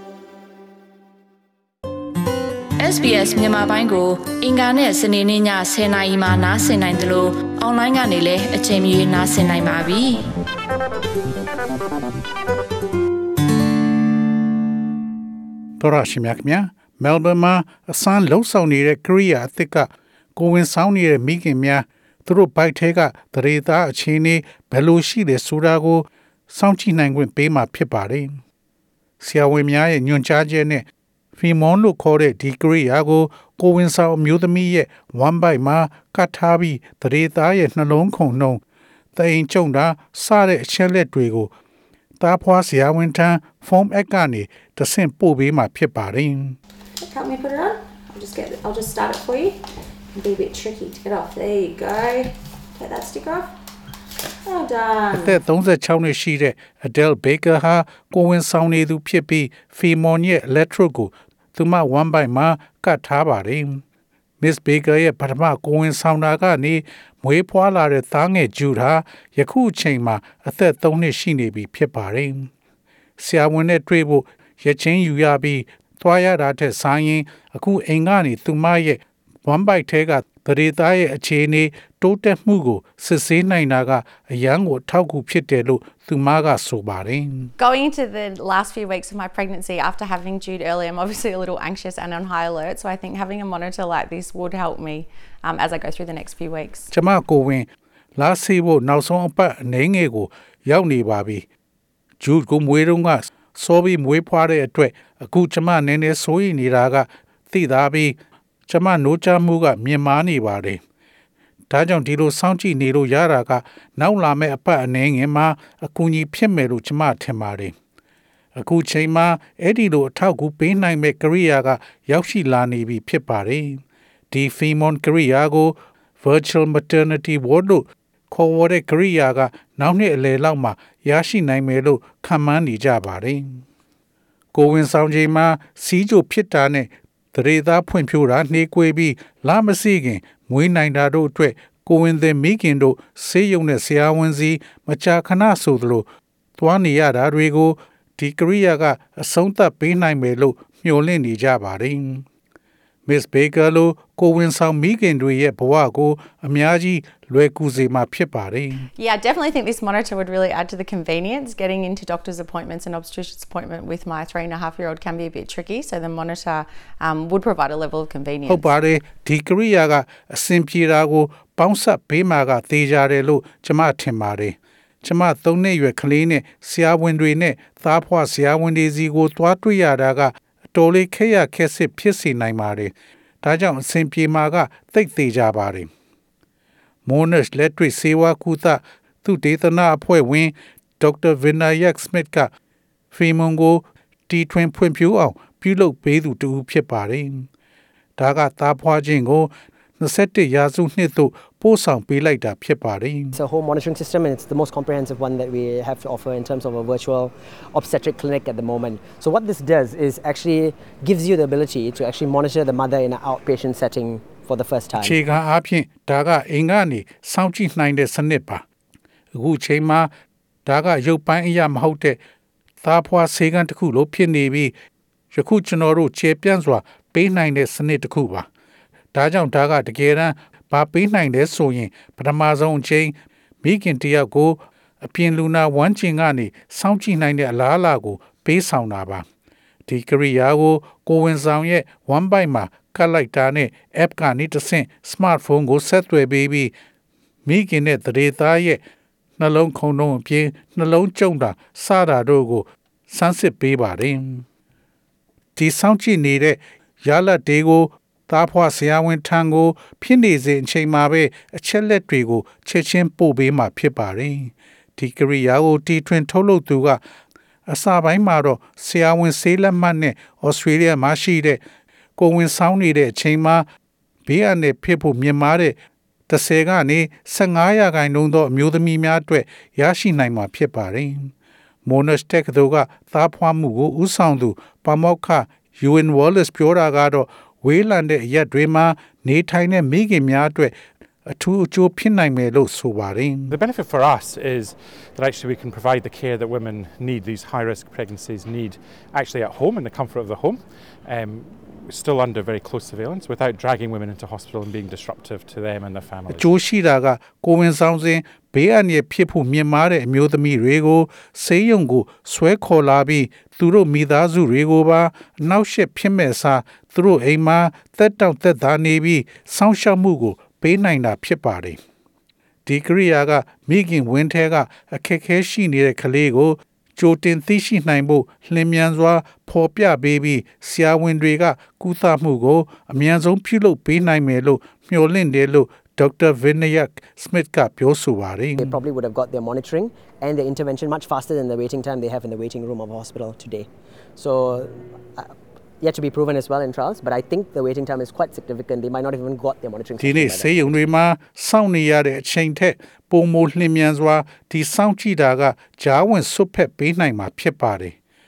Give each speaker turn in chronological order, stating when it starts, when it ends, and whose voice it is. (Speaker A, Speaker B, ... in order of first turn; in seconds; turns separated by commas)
Speaker A: 2.8-10.3, Speaker B: 15.8-28.4, Speaker B: 29.2-38.6, Speaker B: 39.1-41.5, Speaker B: 42.2-46.6, Speaker C: 47.0-53.5, Speaker C: 54.4-55.4, Speaker B: 55.1-63.8, Speaker B: 64.4-72.5, Speaker B: 73.2-87.5, Speaker D: 87.6-96.9, Speaker B: 96.9-101.5, Speaker B: 102.2-108.2, Speaker B: 108.7-110.8, Speaker B: 111.7-117.7, Speaker B: 118.5-133.6, Speaker B: 134.5-146.1, Speaker B: 146.6-152.2, Speaker B: 153.1-158.9, Speaker D: 158.9-168.8, Speaker B: 168.4-185.9, Speaker B: 187.0-192.5, Speaker B: 193.1-197.5, Speaker B: 198.2-203.4, Speaker E: 203.3-215.2, Speaker B: 215.0-218.6, Speaker B: 219.3-220.1, Speaker B: 220.6-222.2, Speaker B: 222.8-224.7, Speaker B: 225.3-228.5, Speaker B: 229.1-239.2, Speaker B: 239.9-246.7, Speaker B: 247.4-248.8, Speaker B: 249.4-254.4, Speaker B: 255.6-267.0, Speaker B: 267.7-271.6, Speaker B: 272.2-273.6, Speaker B: 274.2-281.3, Speaker B: 281.8-290.8, Speaker B: 291.3-293.6, Speaker F: 293.5-306.5, Speaker B: 306.3-321.8, Speaker B: 322.6-338.8, Speaker E: 338.6-350.6, Speaker B: 350.0-357.9